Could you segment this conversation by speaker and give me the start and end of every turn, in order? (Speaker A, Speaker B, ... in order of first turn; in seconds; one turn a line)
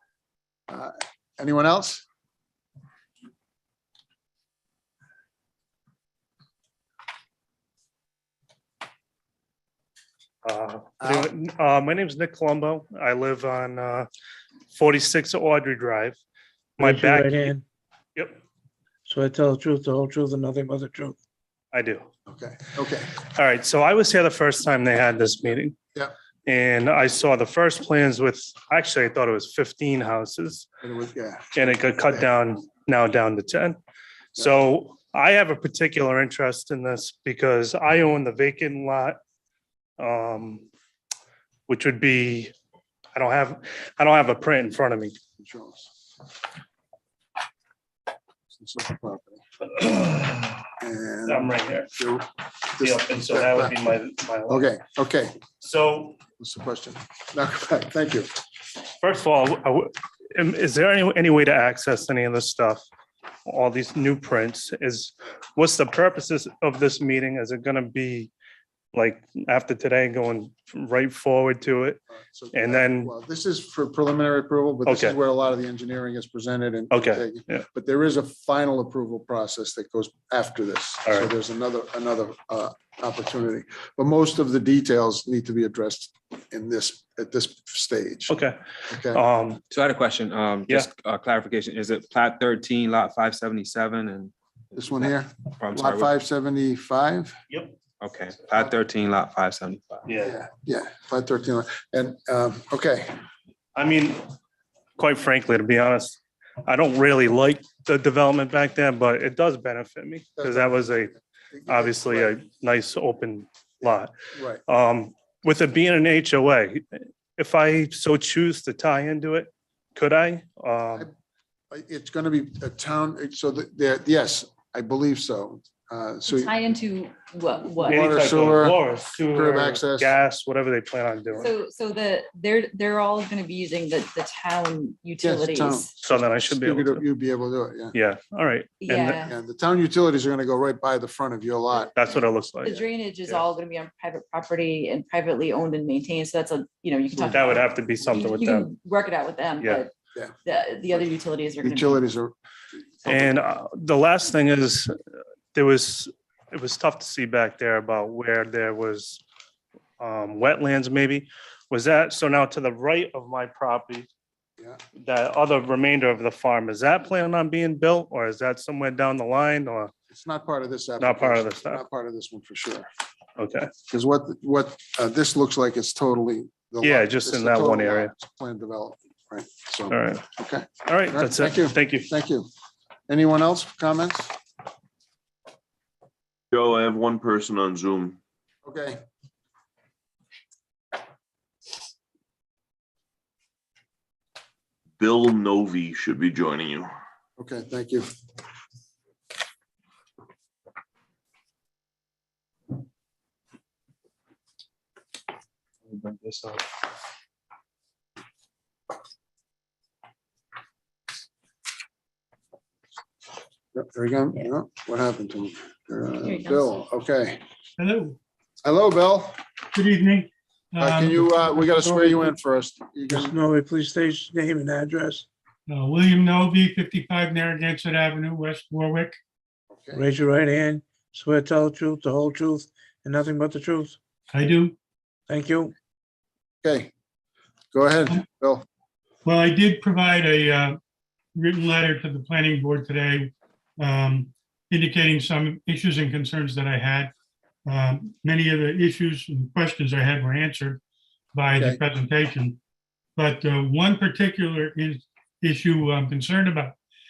Speaker A: 0.7-2.1
Speaker B: 10.4-14.1
Speaker A: 11.0-11.3
Speaker B: 14.7-16.2
Speaker B: 16.8-17.5
Speaker C: 16.8-17.6
Speaker C: 19.1-21.2
Speaker B: 21.7-22.1
Speaker A: 22.3-23.1
Speaker B: 23.2-25.8
Speaker B: 26.5-30.7
Speaker A: 30.8-32.3
Speaker B: 31.6-33.8
Speaker B: 34.4-39.2
Speaker B: 40.0-40.7
Speaker B: 41.7-42.5
Speaker B: 43.1-45.1
Speaker A: 45.4-45.9
Speaker A: 48.5-49.4
Speaker B: 49.7-50.6
Speaker A: 50.8-53.8
Speaker B: 51.3-51.9
Speaker B: 52.8-54.7
Speaker A: 54.5-55.4
Speaker B: 55.6-56.2
Speaker A: 56.4-58.3
Speaker B: 59.0-62.9
Speaker B: 63.5-68.3
Speaker B: 68.9-72.0
Speaker A: 72.1-88.3
Speaker B: 72.5-73.1
Speaker B: 74.9-75.2
Speaker B: 76.9-77.6
Speaker B: 88.3-88.6
Speaker A: 88.9-89.2
Speaker B: 89.1-89.6
Speaker D: 89.7-94.3
Speaker A: 94.8-97.4
Speaker D: 95.6-96.1
Speaker B: 97.5-97.8
Speaker D: 98.0-100.1
Speaker B: 100.1-100.4
Speaker A: 100.2-103.1
Speaker B: 103.8-104.2
Speaker B: 105.0-111.1
Speaker A: 110.4-112.4
Speaker B: 111.7-114.1
Speaker A: 114.3-114.6
Speaker B: 114.7-121.1
Speaker A: 121.7-126.5
Speaker E: 126.3-128.2
Speaker A: 127.8-130.1
Speaker B: 127.8-131.5
Speaker E: 131.3-135.9
Speaker A: 135.2-137.9
Speaker B: 136.0-137.0
Speaker B: 137.9-139.2
Speaker E: 138.8-139.3
Speaker A: 139.2-141.9
Speaker B: 141.9-143.4
Speaker E: 142.1-149.9
Speaker B: 147.2-148.7
Speaker E: 150.4-152.0
Speaker A: 151.6-152.3
Speaker A: 153.1-153.3
Speaker B: 153.1-154.9
Speaker B: 155.5-159.2
Speaker B: 160.0-164.1
Speaker B: 165.0-169.9
Speaker A: 170.1-172.9
Speaker B: 171.0-171.8
Speaker B: 173.4-173.7
Speaker A: 173.9-182.5
Speaker B: 176.8-178.1
Speaker B: 179.9-180.2
Speaker B: 180.8-182.1
Speaker A: 183.1-184.3
Speaker F: 186.5-188.2
Speaker A: 188.7-189.0
Speaker F: 195.0-196.9
Speaker A: 197.4-198.1
Speaker D: 205.9-206.6
Speaker A: 213.8-217.4
Speaker E: 216.2-216.7
Speaker G: 217.8-218.2
Speaker A: 218.6-219.4
Speaker G: 219.7-222.3
Speaker A: 220.8-223.3
Speaker C: 223.1-225.3
Speaker G: 225.7-229.2
Speaker A: 229.7-230.1
Speaker C: 229.9-234.0
Speaker G: 234.3-234.8
Speaker C: 235.3-235.7
Speaker A: 236.6-236.9
Speaker A: 237.7-238.7
Speaker G: 239.2-240.8
Speaker G: 241.4-247.1
Speaker G: 247.7-250.8
Speaker G: 251.3-252.6
Speaker A: 251.6-251.8
Speaker G: 253.2-256.8